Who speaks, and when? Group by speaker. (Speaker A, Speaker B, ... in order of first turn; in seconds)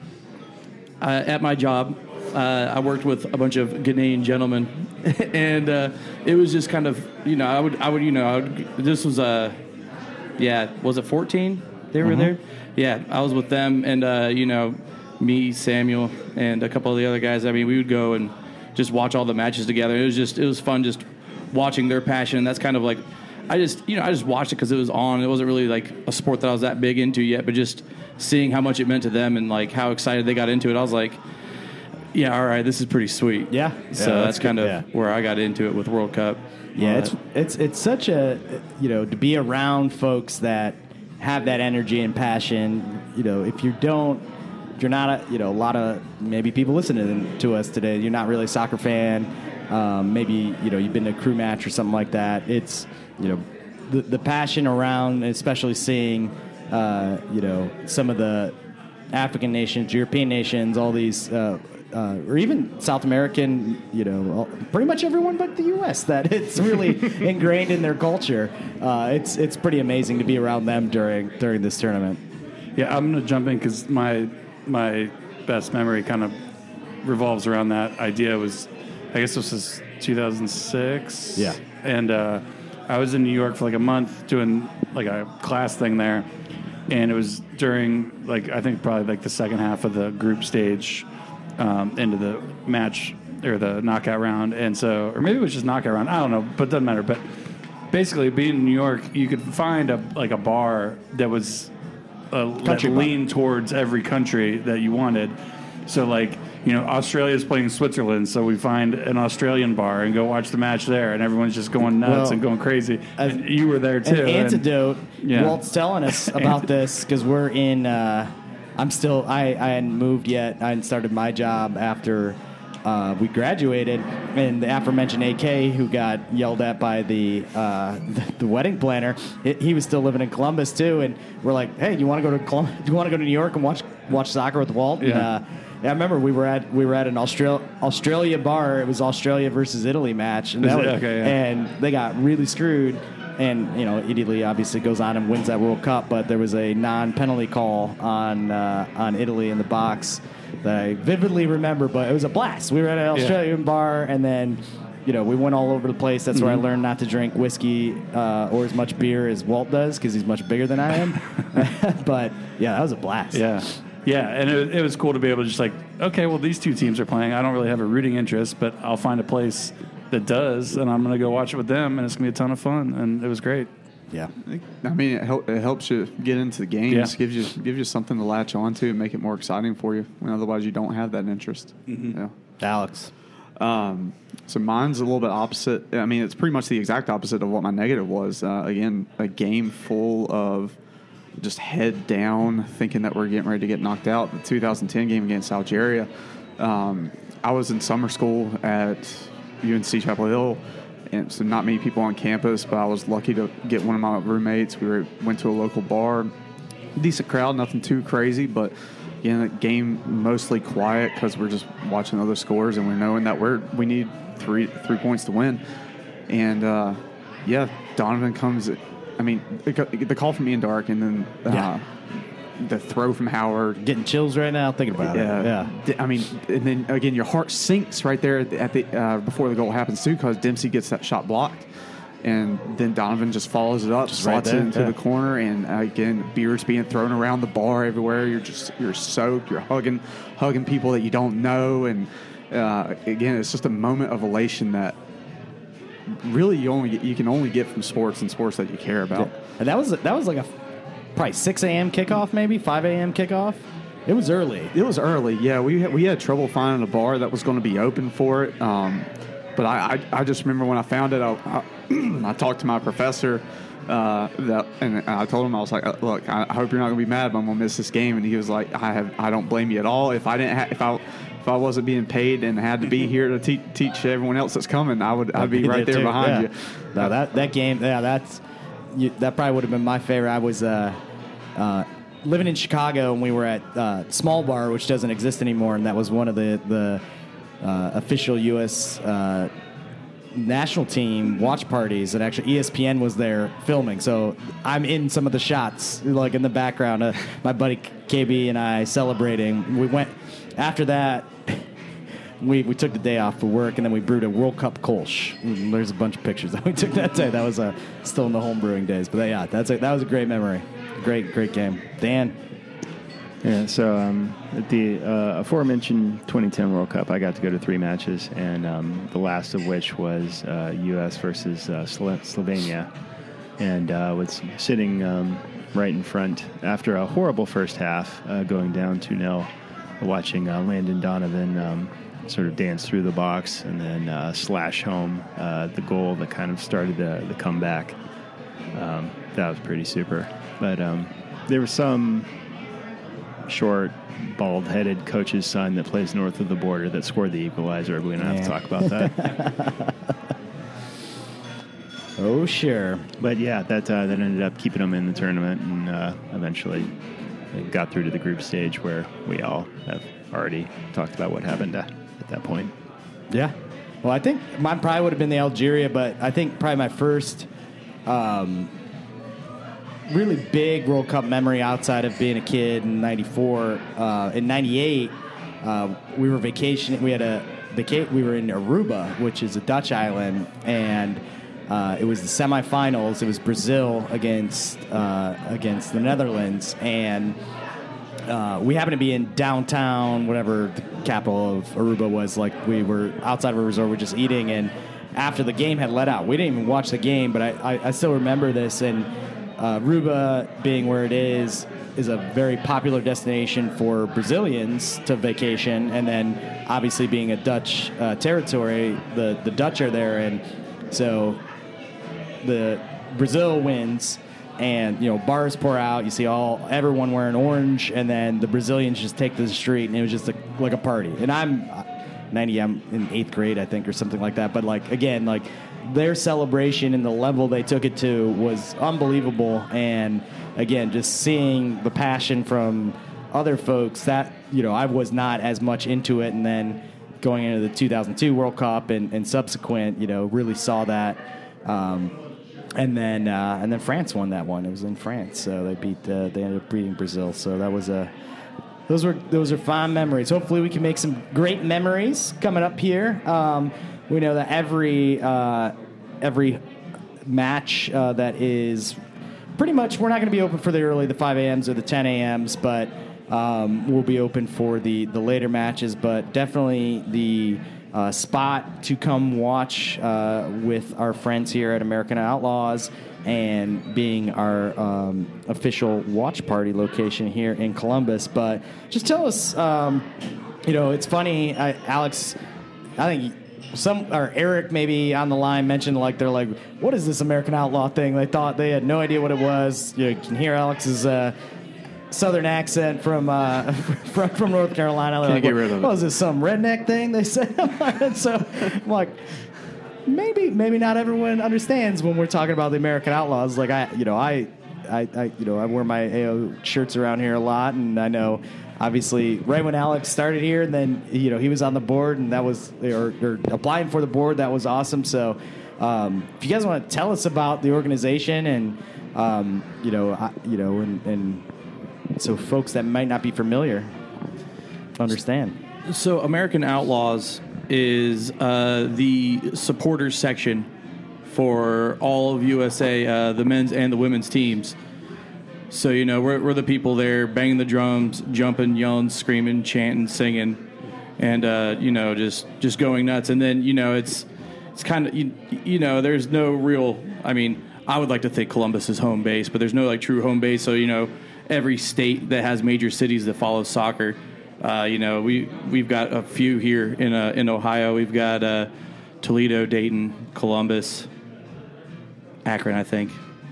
Speaker A: 1.0-9.6, 10.4-31.2, 32.1-37.1, 525.9-530.7, 531.2-534.7, 535.7-540.6, 541.2-558.7, 559.2-561.1, 562.4-563.2
Speaker B: 33.5-34.8, 36.8-44.2, 44.8-58.5, 59.1-72.2, 102.6-103.1, 112.0-112.4, 114.0-163.5, 182.6-183.1, 223.8-225.7, 234.1-234.9, 249.1-250.5, 251.2-254.7, 275.3-278.4, 278.9-281.0, 281.6-287.0, 287.6-289.5, 290.3-301.6, 302.4-312.4, 348.2-349.9, 352.2-353.1, 363.3-367.5, 368.1-368.7, 370.1-387.4, 388.3-411.4, 412.4-442.1, 442.8-448.1, 448.9-456.6, 457.2-459.0, 459.6-480.1, 480.6-482.4, 483.0-491.3, 492.1-499.2, 500.1-521.4, 522.2-523.9, 525.0-525.6
Speaker C: 72.8-76.3, 77.0-86.3, 86.9-91.0, 91.6-97.2, 97.9-101.7, 102.3-105.3, 105.9-114.6, 115.2-115.6, 116.1-116.6, 135.0-135.3, 140.6-141.4, 153.1-153.4, 156.3-156.6, 163.3-173.7, 181.9-182.2
Speaker D: 174.4-182.3, 183.6-190.8, 191.4-206.3, 207.0-215.6, 216.3-221.8, 222.6-223.8, 225.0-231.6, 232.2-244.9, 246.1-249.3, 254.7-277.1, 495.2-495.9
Speaker E: 313.4-322.9, 323.6-329.5, 330.0-337.9, 338.7-342.3, 343.4-349.3, 353.2-356.9, 357.5-362.7